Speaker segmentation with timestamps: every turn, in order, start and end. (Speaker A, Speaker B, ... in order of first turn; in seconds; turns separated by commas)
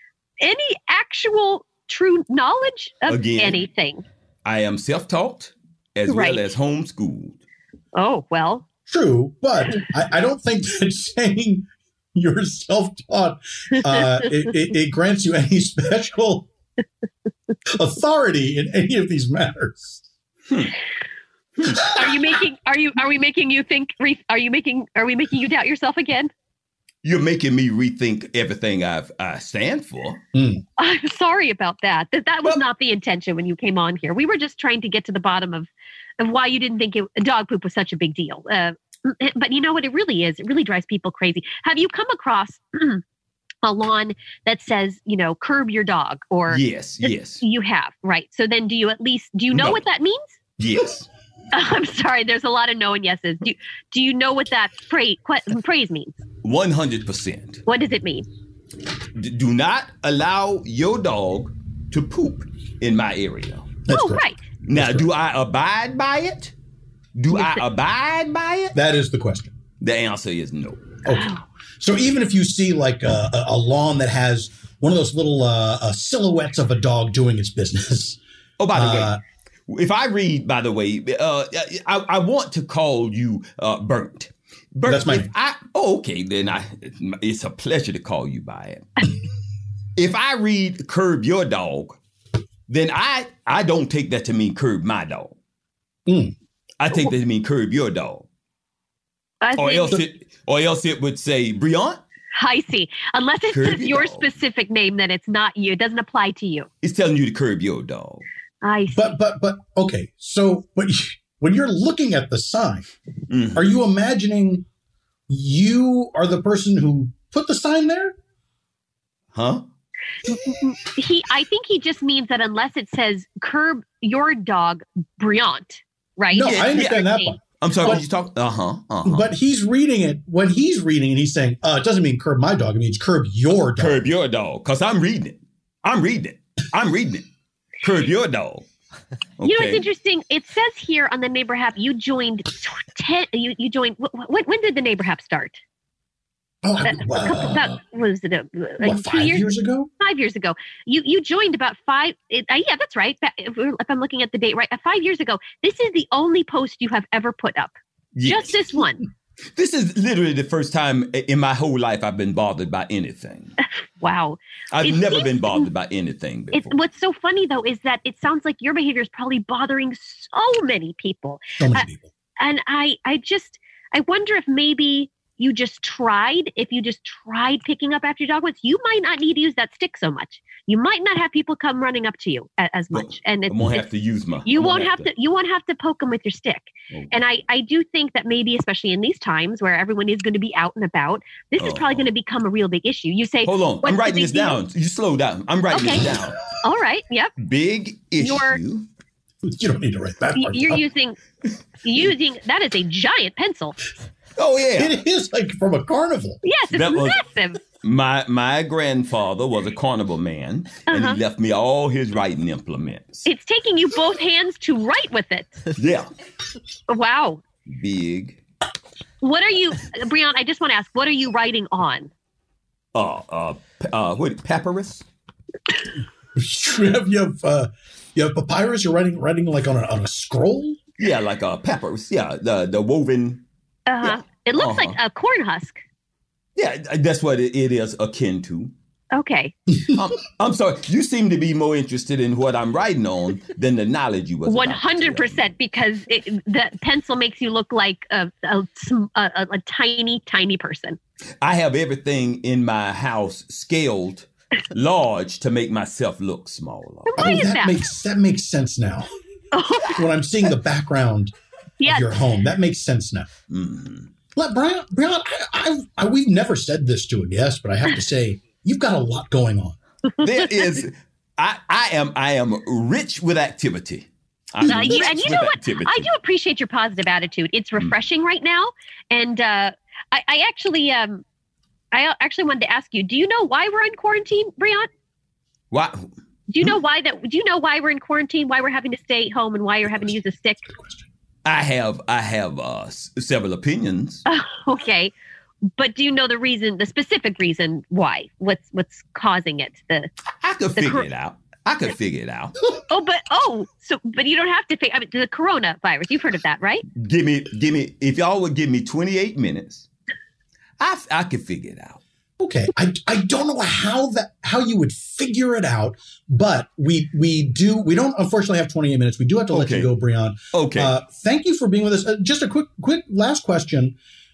Speaker A: 0.4-4.0, Speaker B: 3.1-3.6, Speaker B: 4.4-7.4, Speaker A: 6.1-6.4, Speaker A: 7.9-8.6, Speaker C: 8.9-16.5, Speaker A: 13.8-14.3, Speaker C: 17.7-20.1, Speaker B: 20.5-20.8, Speaker B: 21.6-21.9, Speaker A: 21.8-26.3, Speaker B: 27.0-30.2, Speaker C: 30.3-30.6, Speaker A: 30.8-43.0, Speaker A: 43.6-50.3, Speaker B: 46.5-47.4, Speaker B: 49.5-49.8, Speaker B: 50.6-51.1, Speaker A: 51.5-56.2, Speaker B: 56.4-57.6, Speaker A: 57.6-58.3, Speaker B: 59.1-63.8, Speaker C: 63.8-65.1, Speaker A: 63.9-64.4, Speaker B: 64.6-66.5, Speaker B: 67.1-68.7, Speaker A: 67.3-67.6, Speaker C: 68.7-69.5, Speaker B: 69.8-71.0, Speaker A: 71.1-71.4, Speaker C: 71.8-78.2, Speaker B: 78.6-79.2, Speaker C: 78.7-79.2, Speaker B: 79.7-89.1, Speaker C: 84.8-85.3, Speaker B: 90.0-92.0, Speaker B: 92.7-95.3, Speaker C: 96.1-96.3, Speaker B: 96.8-98.2, Speaker A: 99.4-100.0, Speaker B: 99.6-102.0, Speaker A: 102.3-106.7, Speaker B: 103.5-104.3, Speaker B: 106.8-108.2, Speaker A: 108.6-109.1, Speaker C: 108.9-112.9, Speaker B: 113.3-113.7, Speaker C: 113.5-114.7, Speaker C: 115.3-118.2, Speaker B: 119.3-119.6, Speaker A: 120.3-128.0, Speaker C: 126.3-128.0, Speaker B: 126.4-129.3, Speaker C: 129.0-134.0, Speaker B: 133.8-137.3, Speaker B: 137.8-138.7, Speaker B: 139.4-139.8, Speaker A: 139.4-145.6, Speaker C: 146.6-147.8, Speaker A: 146.8-157.7, Speaker C: 148.8-149.9, Speaker B: 158.1-158.5, Speaker A: 158.2-159.0, Speaker B: 159.5-163.5, Speaker A: 164.0-165.7, Speaker B: 164.7-166.8, Speaker A: 166.5-171.9, Speaker C: 171.6-172.1, Speaker A: 172.4-183.8, Speaker B: 182.9-185.1, Speaker A: 184.4-194.6, Speaker B: 186.9-187.2, Speaker B: 191.6-192.1, Speaker B: 193.4-196.4, Speaker A: 195.7-196.1, Speaker A: 196.6-197.3, Speaker B: 197.4-198.9, Speaker A: 198.2-198.6, Speaker C: 199.4-200.8, Speaker A: 200.3-201.2, Speaker A: 201.8-203.8, Speaker B: 204.4-204.9, Speaker C: 204.8-206.4, Speaker A: 206.4-207.6, Speaker B: 206.7-207.2, Speaker B: 207.7-213.2, Speaker A: 210.9-211.2, Speaker A: 213.2-215.5, Speaker B: 215.8-216.1, Speaker A: 216.9-217.4, Speaker B: 217.7-218.4, Speaker A: 219.2-222.1, Speaker B: 222.9-225.0, Speaker C: 226.3-230.8, Speaker B: 231.0-233.4, Speaker A: 233.9-235.8, Speaker B: 234.0-235.0, Speaker B: 236.6-238.7, Speaker A: 239.1-239.5, Speaker B: 239.9-245.4, Speaker A: 244.4-251.0, Speaker B: 251.4-257.2, Speaker A: 257.1-257.8, Speaker C: 257.2-259.1, Speaker A: 259.5-260.0, Speaker C: 259.9-261.3, Speaker A: 261.8-262.2, Speaker C: 261.8-263.3, Speaker B: 263.5-264.1, Speaker C: 264.3-269.8, Speaker A: 270.2-270.7, Speaker B: 270.2-276.1, Speaker A: 274.6-281.2, Speaker C: 274.7-275.0, Speaker A: 281.9-284.9, Speaker B: 285.7-286.1, Speaker A: 286.5-290.6, Speaker C: 290.6-291.1, Speaker B: 291.4-294.2, Speaker A: 294.3-295.1, Speaker A: 295.8-300.1, Speaker B: 300.4-302.5, Speaker A: 300.7-301.1, Speaker A: 302.9-306.8, Speaker B: 306.9-309.9, Speaker B: 310.8-312.0, Speaker C: 312.4-324.0, Speaker B: 319.5-319.9, Speaker B: 320.5-320.9